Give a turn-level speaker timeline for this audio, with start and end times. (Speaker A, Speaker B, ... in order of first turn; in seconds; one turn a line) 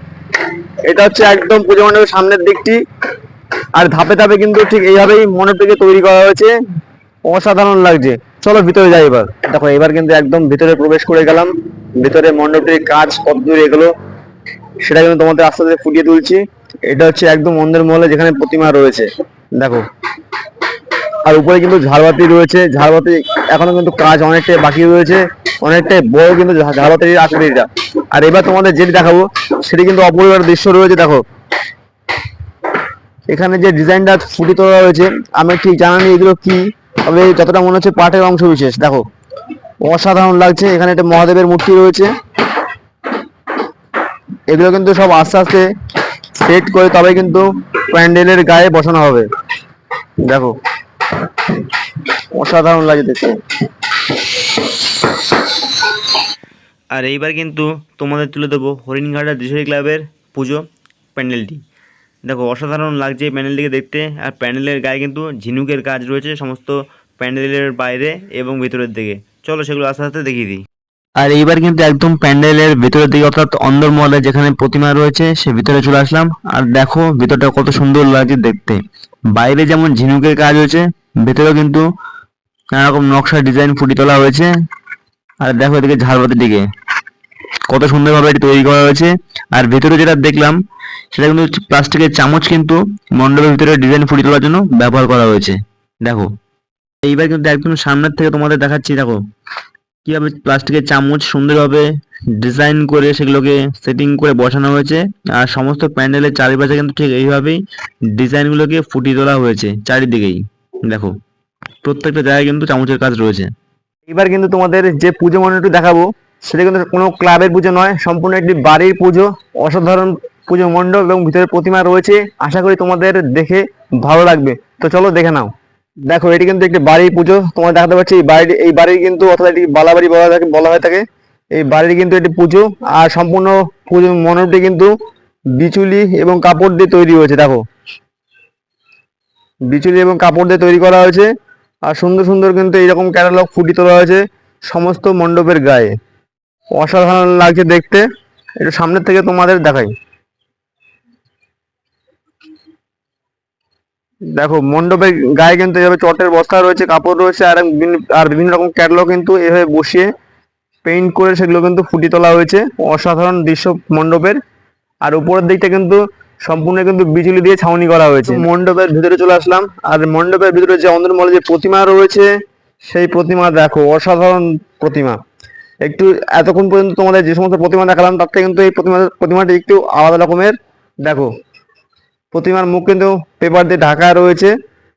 Speaker A: 0.8-2.8
Speaker A: 3.8-6.5
Speaker A: 7.3-13.9
Speaker A: 14.8-19.8
Speaker A: 21.2-31.2
Speaker A: 33.3-39.0
Speaker A: 39.8-42.1
Speaker A: 44.5-45.7
Speaker A: 46.3-49.3
Speaker A: 50.2-50.5
Speaker A: 52.3-53.4
Speaker B: 56.9-60.6
Speaker B: 61.1-61.6
Speaker B: 62.3-70.6
Speaker A: 71.2-78.8
Speaker B: 74.6-75.0
Speaker B: 79.4-80.0
Speaker A: 79.4-81.8
Speaker A: 82.8-84.5
Speaker B: 83.3-83.8
Speaker A: 85.4-86.6
Speaker A: 87.7-89.1
Speaker B: 89.6-90.5
Speaker A: 89.6-90.6
Speaker B: 91.2-95.5
Speaker A: 91.2-92.7
Speaker A: 93.3-95.5
Speaker A: 97.0-99.2
Speaker B: 97.1-98.5
Speaker B: 100.1-101.8
Speaker A: 100.1-101.8
Speaker B: 102.4-107.6
Speaker A: 102.4-107.5
Speaker B: 108.1-110.4
Speaker A: 108.2-108.7
Speaker A: 109.4-110.3
Speaker B: 111.8-113.5
Speaker A: 112.0-113.4
Speaker A: 114.1-125.5
Speaker A: 126.1-134.9
Speaker A: 135.6-137.6
Speaker A: 139.7-141.3
Speaker A: 141.9-145.9
Speaker A: 146.7-148.0
Speaker A: 148.6-149.9
Speaker A: 154.3-160.1
Speaker A: 160.8-164.4
Speaker A: 165.0-172.3
Speaker A: 172.8-175.2
Speaker A: 175.8-181.3
Speaker A: 182.3-184.5